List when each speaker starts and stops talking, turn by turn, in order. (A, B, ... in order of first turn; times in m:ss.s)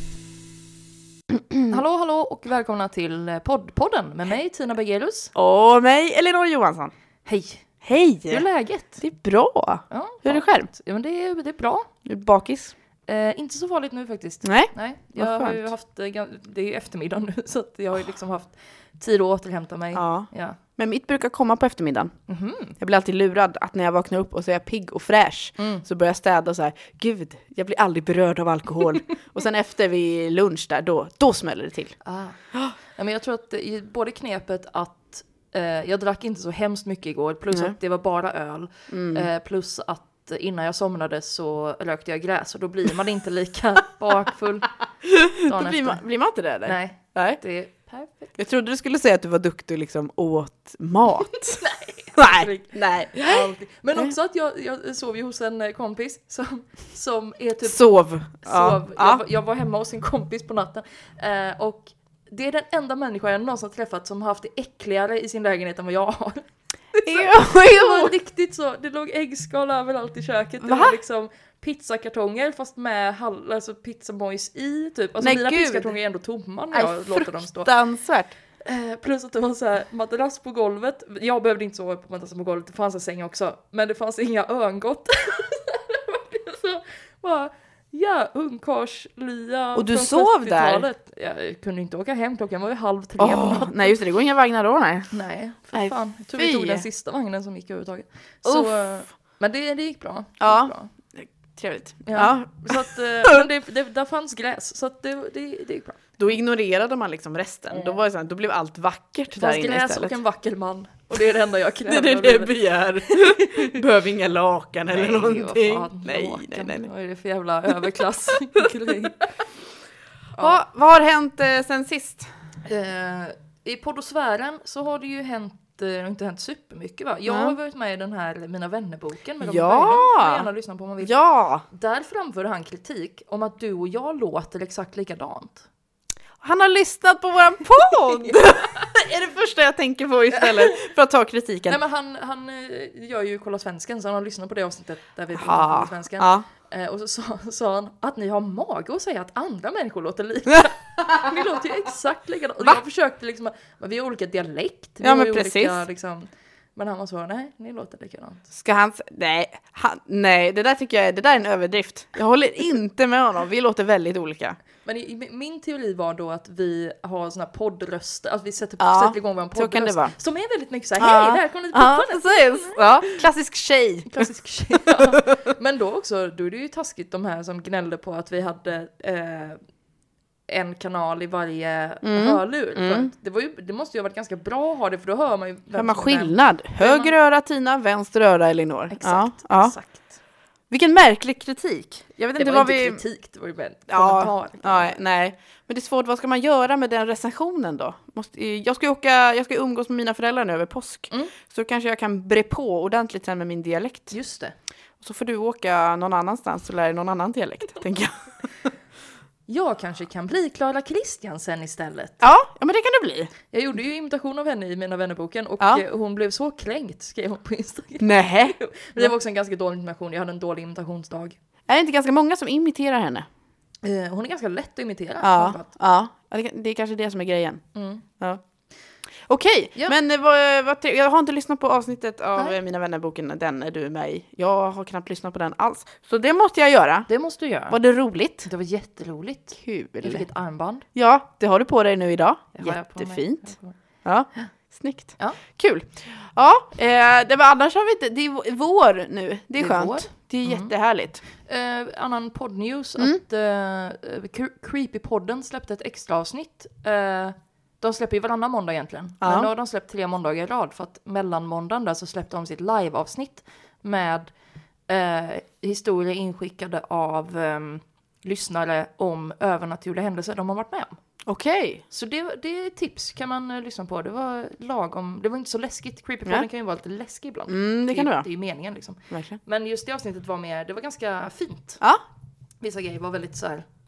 0:01.7-0:05.3 A
0:05.3-0:06.9 B
0:07.2-0:09.0 A
0:07.8-0:08.4 B
0:09.0-0:10.7 B
0:09.9-0:11.9 A
0:12.0-0:12.7 B
0:13.1-0:20.6 A
0:14.4-0:15.7 B
0:19.9-0:22.1 B
0:22.3-0:22.8 A
0:22.8-0:32.0 B
0:25.6-0:25.8 A
0:32.0-0:44.8 A
0:38.9-0:39.3 B
0:45.0-0:47.4 B
0:45.4-0:46.0 A
0:46.6-0:48.3 A
0:48.4-0:51.6 B
0:51.6-1:17.7 A
0:52.1-0:54.1 B
0:57.6-0:59.2 B
1:07.0-1:08.1 B
1:10.6-1:11.0 B
1:15.2-1:15.9 B
1:16.7-1:18.3 B
1:18.6-1:33.9 A
1:29.7-1:30.8 B
1:33.2-1:35.1 B
1:35.1-1:40.9 A
1:35.7-1:36.8 B
1:38.4-1:38.7 B
1:40.4-1:43.5 B
1:42.0-1:46.0 A
1:46.2-1:50.2 B
1:47.7-1:48.0 A
1:49.3-1:53.7 A
1:51.9-1:56.9 B
1:54.9-1:59.2 A
2:00.4-2:02.3 B
2:02.6-2:11.1 A
2:07.3-2:07.6 B
2:09.4-2:10.5 B
2:11.0-2:11.6 B
2:11.6-2:15.7 A
2:16.4-2:21.8 B
2:18.1-2:18.4 A
2:20.4-2:20.7 A
2:21.7-2:38.4 A
2:25.4-2:26.4 B
2:35.0-2:35.8 B
2:38.5-2:44.6 B
2:44.8-2:53.2 A
2:48.8-2:50.1 B
2:51.0-2:55.3 B
2:54.1-2:59.6 A
3:00.5-3:07.1 A
3:02.0-3:03.1 B
3:05.8-3:09.7 B
3:08.9-3:10.2 A
3:10.7-3:13.0 B
3:12.4-3:15.0 A
3:13.9-3:24.1 B
3:24.1-3:24.5 A
3:25.0-3:28.7 B
3:29.5-3:32.2 A
3:32.2-3:33.3 B
3:33.5-3:41.4 A
3:38.0-3:39.1 B
3:41.7-3:43.3 B
3:43.8-3:45.7 A
3:45.2-3:47.6 B
3:47.7-3:48.0 A
3:49.2-3:57.1 B
3:57.1-3:57.8 A
3:57.7-3:58.5 B
3:58.4-4:00.8 A
3:59.5-4:00.3 B
4:00.9-4:03.5 B
4:02.6-4:03.8 A
4:04.0-4:11.2 B
4:09.6-4:10.7 A
4:11.3-4:24.3 A
4:19.2-4:19.5 B
4:24.9-4:31.0 A
4:31.2-4:31.8 B
4:31.9-4:41.8 A
4:37.5-4:38.3 B
4:39.1-4:39.4 B
4:42.6-4:43.6 A